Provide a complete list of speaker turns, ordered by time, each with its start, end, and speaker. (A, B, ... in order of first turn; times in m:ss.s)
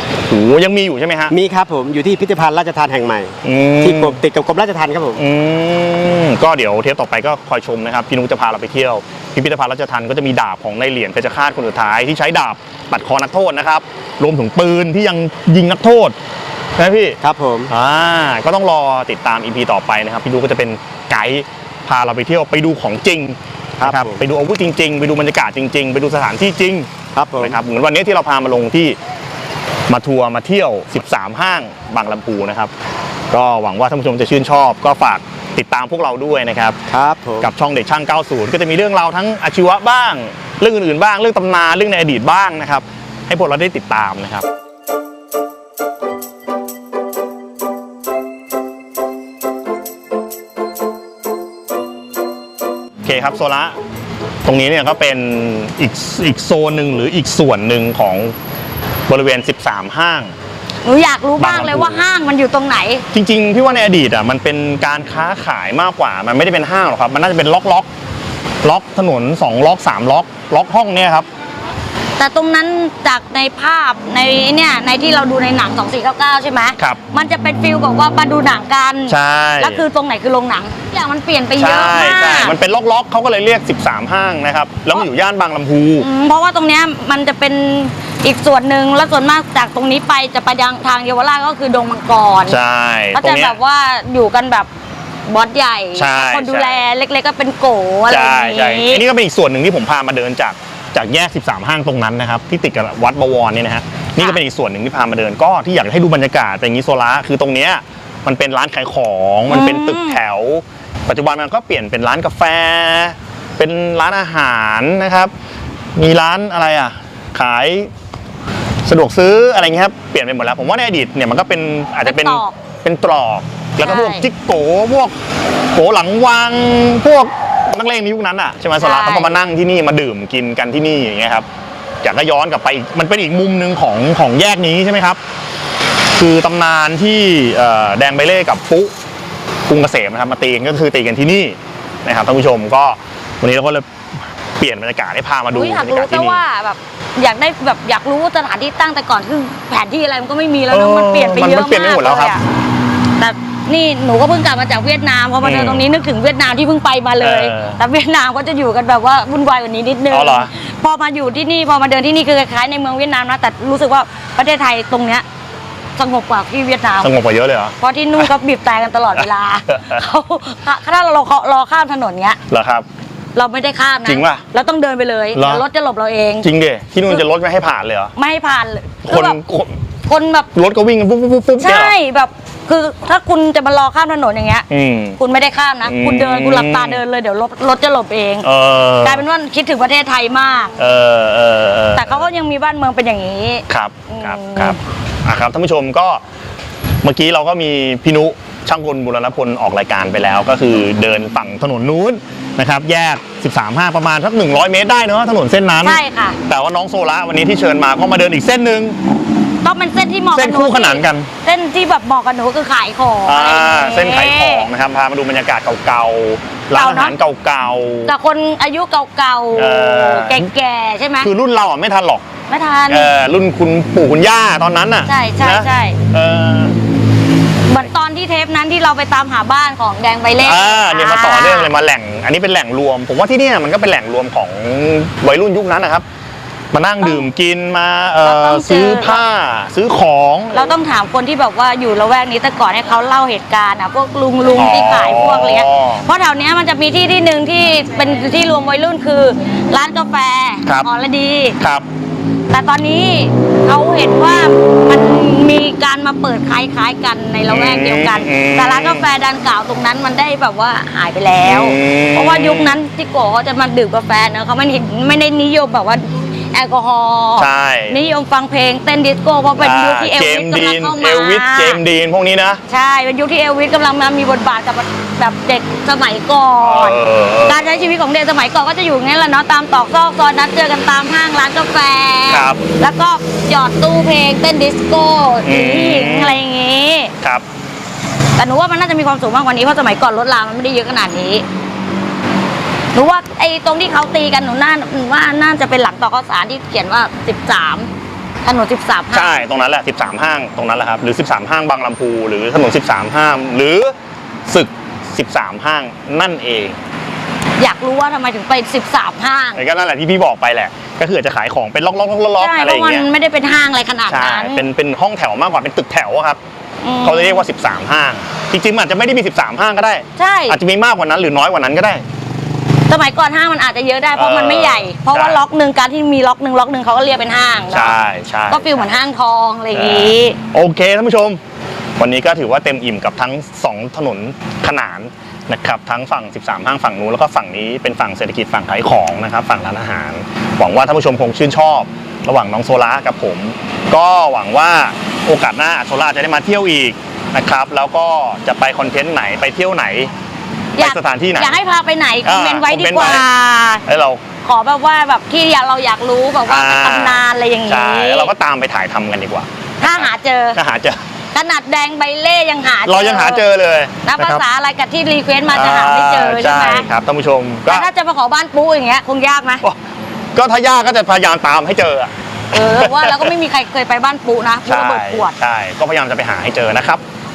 0:00.3-0:01.3 A
0:01.3-0:05.2 B
0:03.4-0:04.2 A
0:05.2-0:16.2 A
0:16.8-0:17.2 A
0:17.2-0:17.7 B
0:17.7-0:29.0 A
0:23.8-0:24.2 B
0:27.1-0:27.6 B
0:29.9-0:32.7 A
0:33.3-0:36.8 A
0:36.9-0:37.5 B
0:37.4-0:44.4 A
0:53.0-0:53.7 A
0:54.4-0:58.3 A
0:59.1-1:00.3 A
1:00.8-1:03.0 C
1:01.4-1:02.0 A
1:03.1-1:07.9 A
1:08.6-1:11.3 A
1:12.2-1:22.5 C
1:19.1-1:19.8 A
1:21.6-1:26.1 A
1:26.0-1:32.6 C
1:32.5-1:33.6 A
1:33.1-1:34.7 C
1:35.3-1:39.0 C
1:35.9-1:36.8 A
1:38.1-1:55.3 A
1:49.5-1:50.2 C
1:56.0-1:57.9 A
1:58.8-2:05.1 A
2:02.0-2:02.5 C
2:03.8-2:04.3 C
2:05.7-2:11.4 A
2:08.8-2:09.4 C
2:12.0-2:15.2 A
2:16.2-2:18.9 A
2:19.7-2:23.8 A
2:24.6-2:26.4 A
2:25.5-2:32.4 C
2:30.7-2:32.4 A
2:33.2-2:45.2 C
2:35.4-2:35.8 A
2:37.2-2:37.8 A
2:40.1-2:40.5 A
2:46.0-2:47.1 C
2:47.0-2:47.8 A
2:47.8-2:52.4 C
2:49.7-2:50.0 A
2:52.5-2:52.8 A
2:53.3-2:56.5 C
2:54.0-2:54.4 A
2:55.3-2:55.6 A
2:56.4-2:58.1 A
2:58.2-2:59.4 C
2:59.0-2:59.8 A
3:00.0-3:00.5 C
3:00.5-3:01.9 A
3:01.6-3:08.5 C
3:04.7-3:05.2 A
3:05.8-3:07.0 A
3:08.4-3:09.2 A
3:09.0-3:10.7 C
3:10.8-3:12.3 A
3:11.9-3:14.8 C
3:13.7-3:16.2 A
3:17.0-3:29.0 A
3:25.8-3:26.4 C
3:29.6-3:34.7 C
3:30.3-3:31.3 A
3:33.2-3:38.1 A
3:36.7-3:37.2 C
3:38.0-3:41.3 C
3:39.5-3:40.5 A
3:41.2-3:42.2 A
3:42.5-3:43.1 C
3:42.9-3:46.8 A
3:45.0-3:46.0 C
3:47.7-3:51.7 C
3:50.4-3:56.0 A
3:56.7-4:00.7 A
3:57.0-3:57.3 C
3:58.2-3:59.2 C
4:00.5-4:11.6 C
4:04.6-4:06.0 A
4:11.6-4:11.8 A
4:12.5-4:31.8 C
4:17.5-4:19.0 A
4:21.4-4:22.8 A
4:27.4-4:28.0 A
4:29.6-4:32.6 A
4:32.7-4:47.1 C
4:36.6-4:37.8 A
4:42.3-4:42.6 A
4:45.4-4:46.4 A
4:48.3-4:51.4 C
4:52.9-4:57.9 C
4:58.4-4:59.3 C
4:59.1-5:03.9 A
5:04.5-5:06.8 A
5:07.6-5:09.6 C
5:09.6-5:13.1 A
5:12.4-5:14.7 C
5:14.1-5:16.4 A
5:16.8-5:17.4 C
5:17.0-5:22.0 A
5:20.2-5:20.6 C
5:22.9-5:28.0 C
5:24.1-5:25.4 A
5:27.7-5:28.9 A
5:28.5-5:30.4 C
5:29.7-5:31.4 A
5:32.0-5:50.1 A
5:50.8-5:51.6 A
5:50.8-5:53.8 C
5:52.2-5:53.2 A
5:53.8-5:54.2 A
5:54.4-5:58.3 C
5:56.5-6:01.0 A
5:59.8-6:00.6 C
6:01.3-6:03.4 C
6:02.8-6:04.4 A
6:04.0-6:06.9 C
6:05.5-6:07.9 A
6:07.6-6:09.6 C
6:10.3-6:12.1 A
6:12.5-6:15.3 C
6:12.8-6:13.3 A
6:14.6-6:17.0 A